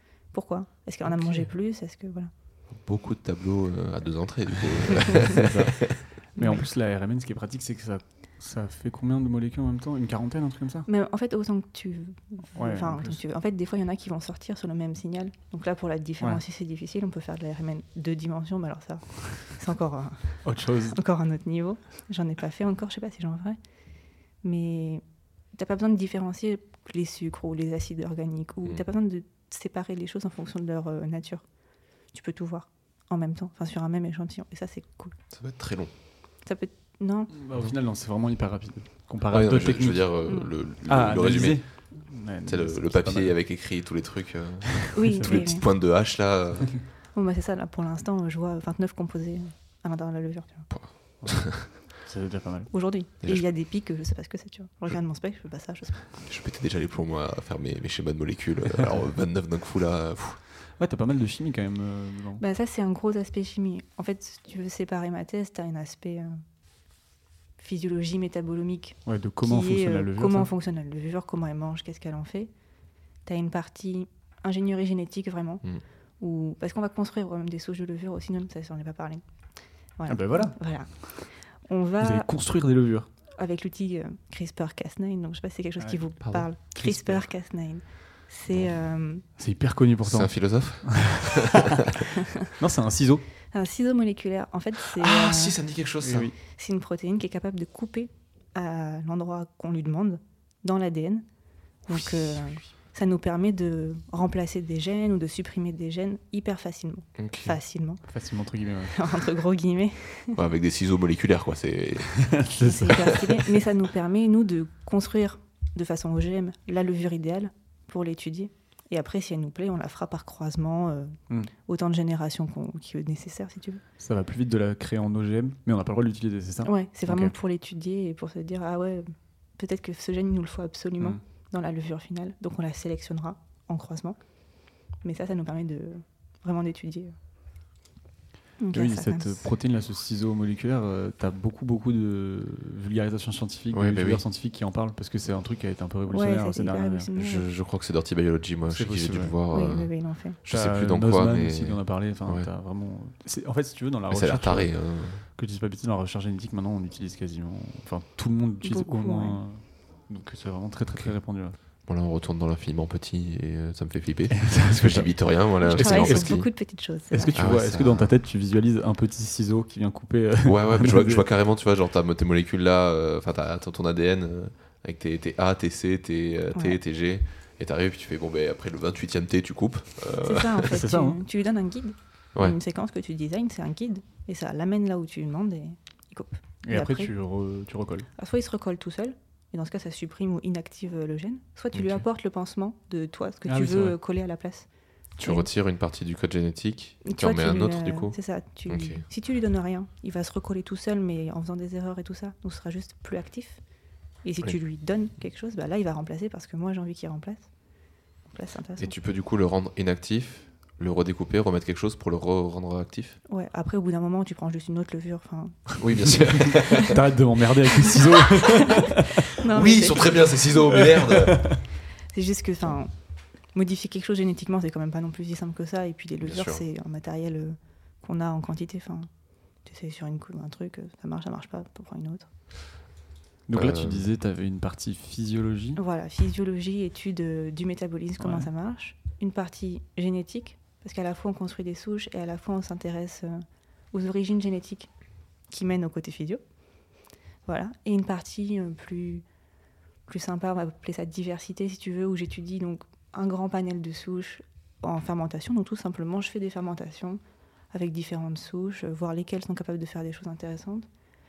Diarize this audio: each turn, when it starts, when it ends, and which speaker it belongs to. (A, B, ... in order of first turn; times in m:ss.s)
0:00.3-0:02.3 A
0:01.1-0:01.5 B
0:02.7-0:05.9 C
0:05.3-0:10.9 B
0:10.9-0:23.6 A
0:12.6-0:13.2 B
0:20.4-0:21.0 B
0:24.4-0:31.4 A
0:32.1-0:35.2 A
0:35.3-0:35.9 C
0:36.4-0:37.3 A
0:37.3-0:40.1 B
0:39.3-0:41.6 C
0:40.8-0:43.4 B
0:42.5-0:46.8 C
0:44.8-0:45.4 B
0:44.9-0:45.6 A
0:47.1-0:50.7 A
0:50.7-0:51.7 C
0:51.2-0:52.7 B
0:52.7-0:56.1 A
0:53.2-0:53.5 C
0:56.2-1:00.4 C
1:00.8-1:02.4 B
1:02.4-1:06.4 A
1:07.6-1:12.5 A
1:09.1-1:10.5 B
1:13.2-1:15.6 A
1:16.2-1:19.2 A
1:20.0-1:22.3 A
1:20.1-1:21.2 B
1:22.0-1:23.1 B
1:23.3-1:29.2 A
1:26.8-1:27.2 B
1:29.4-1:31.9 B
1:30.0-1:31.9 C
1:32.4-1:33.2 B
1:33.5-1:35.6 A
1:35.0-1:36.3 C
1:36.0-1:36.4 B
1:36.4-1:41.3 A
1:41.8-1:48.0 A
1:47.2-1:47.6 C
1:48.1-1:49.0 B
1:48.9-1:50.4 A
1:50.4-1:52.5 C
1:52.2-1:53.2 B
1:52.6-2:03.8 A
2:04.0-2:07.3 B
2:06.6-2:14.2 A
2:15.0-2:17.1 A
2:18.6-2:19.5 A
2:18.7-2:27.1 B
2:23.7-2:24.2 C
2:26.1-2:27.5 A
2:27.2-2:32.5 C
2:28.7-2:29.3 B
2:29.5-2:30.4 A
2:30.5-2:41.6 B
2:34.1-2:35.2 C
2:38.6-2:39.4 A
2:41.9-2:46.5 C
2:44.4-2:46.5 B
2:45.6-2:47.5 A
2:47.1-2:51.2 B
2:47.4-2:48.1 C
2:50.4-3:00.8 C
3:00.2-3:07.1 A
3:00.7-3:01.2 B
3:06.6-3:08.1 B
3:08.2-3:14.7 A
3:11.7-3:12.0 C
3:13.5-3:14.0 B
3:15.2-3:18.2 C
3:15.2-3:15.5 A
3:17.0-3:23.6 A
3:18.7-3:19.0 C
3:24.2-3:27.5 A
3:28.3-3:28.9 A
3:28.8-3:33.2 C
3:33.3-3:36.9 A
3:35.8-3:37.0 C
3:36.1-3:39.2 B
3:37.9-3:40.3 A
3:39.4-3:41.6 C
3:40.7-3:41.6 B
3:42.1-3:49.1 A
3:46.2-3:46.6 C
3:49.6-3:52.3 A
3:53.5-3:55.8 B
3:53.5-3:54.1 C
3:55.8-4:04.9 A
3:58.2-3:58.5 B
4:05.5-4:06.4 A
4:07.5-4:09.2 A
4:10.1-4:17.2 A
4:17.7-4:20.9 A